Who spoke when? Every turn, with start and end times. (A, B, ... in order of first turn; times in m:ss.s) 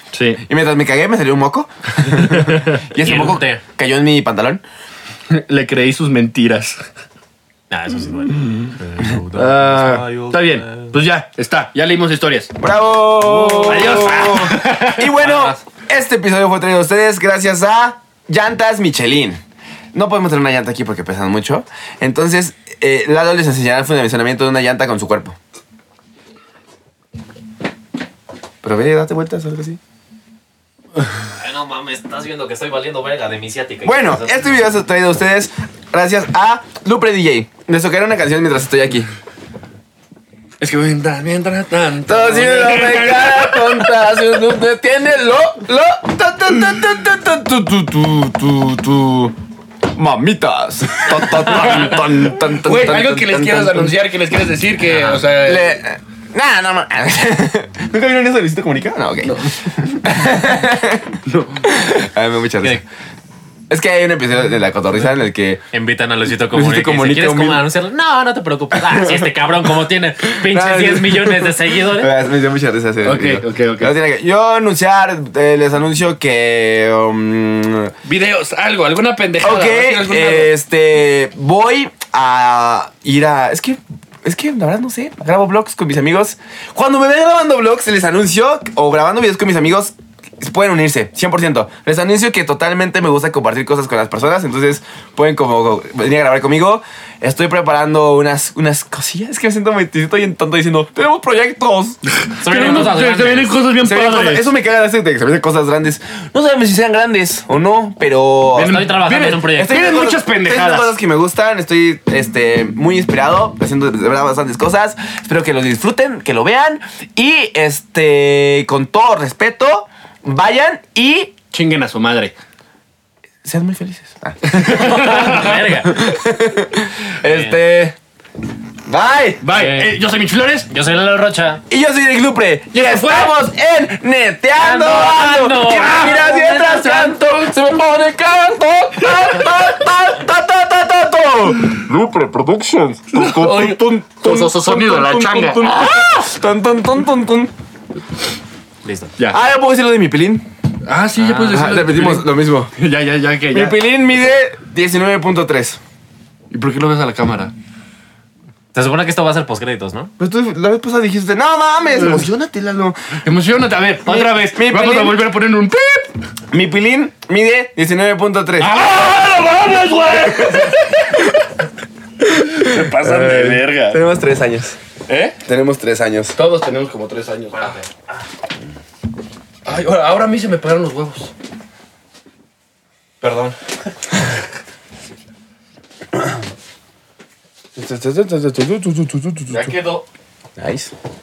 0:00.1-0:00.4 A
0:00.4-0:04.6 B
0:02.0-0:02.8 A
0:03.0-0:03.6 C
0:05.3-0:06.9 A
0:07.7-0:10.9 C
0:09.3-0:12.5 A
0:12.6-0:19.4 B
0:13.2-0:15.0 A
0:13.5-0:14.3 C
0:15.2-0:15.6 C
0:19.9-0:25.4 B
0:28.6-0:29.8 B
0:31.3-0:34.6 C
0:33.8-0:39.1 B
0:40.6-0:43.9 A
0:42.0-0:49.3 B
0:49.9-0:54.0 B
0:51.2-0:55.8 A
0:54.9-0:55.3 C
0:55.4-1:02.8 B
0:59.2-0:59.6 A
1:03.7-1:05.6 B
1:05.7-1:12.1 C
1:06.5-1:07.6 B
1:08.7-1:09.3 B
1:10.3-1:17.9 B
1:13.0-1:13.9 A
1:18.0-1:20.5 A
1:19.4-1:42.0 B
1:42.2-1:44.4 A
1:42.4-1:43.6 C
1:43.8-1:48.8 B
1:48.5-1:50.9 A
1:48.6-1:49.8 C
1:49.5-2:01.3 B
2:01.5-2:02.3 A
2:03.4-2:05.1 B
2:04.4-2:05.5 A
2:04.7-2:06.1 C
2:05.8-2:08.0 B
2:07.3-2:07.6 C
2:08.9-2:09.4 B
2:09.4-2:10.7 A
2:09.5-2:10.0 C
2:10.7-2:11.6 C
2:11.7-2:27.5 B
2:12.7-2:13.3 A
2:14.6-2:17.3 C
2:23.1-2:25.8 A
2:28.8-2:29.1 C
2:29.3-2:30.4 B
2:30.8-2:33.8 A
2:31.2-2:31.6 C
2:31.5-2:32.7 B
2:33.5-2:35.8 B
2:36.5-2:37.5 A
2:38.7-2:40.1 C
2:40.2-2:43.2 B
2:43.2-2:46.1 A
2:44.1-2:45.2 B
2:46.5-2:48.7 B
2:48.6-2:51.3 A
2:50.2-2:50.7 B
2:52.2-2:54.8 B
2:52.4-2:54.0 A
2:55.1-2:55.4 A
2:55.4-2:56.4 B
2:56.3-2:57.8 A
2:57.6-2:58.2 C
2:59.6-3:01.3 A
3:03.2-3:03.6 A
3:07.8-3:09.7 B
3:09.5-3:10.0 A
3:10.6-3:10.9 B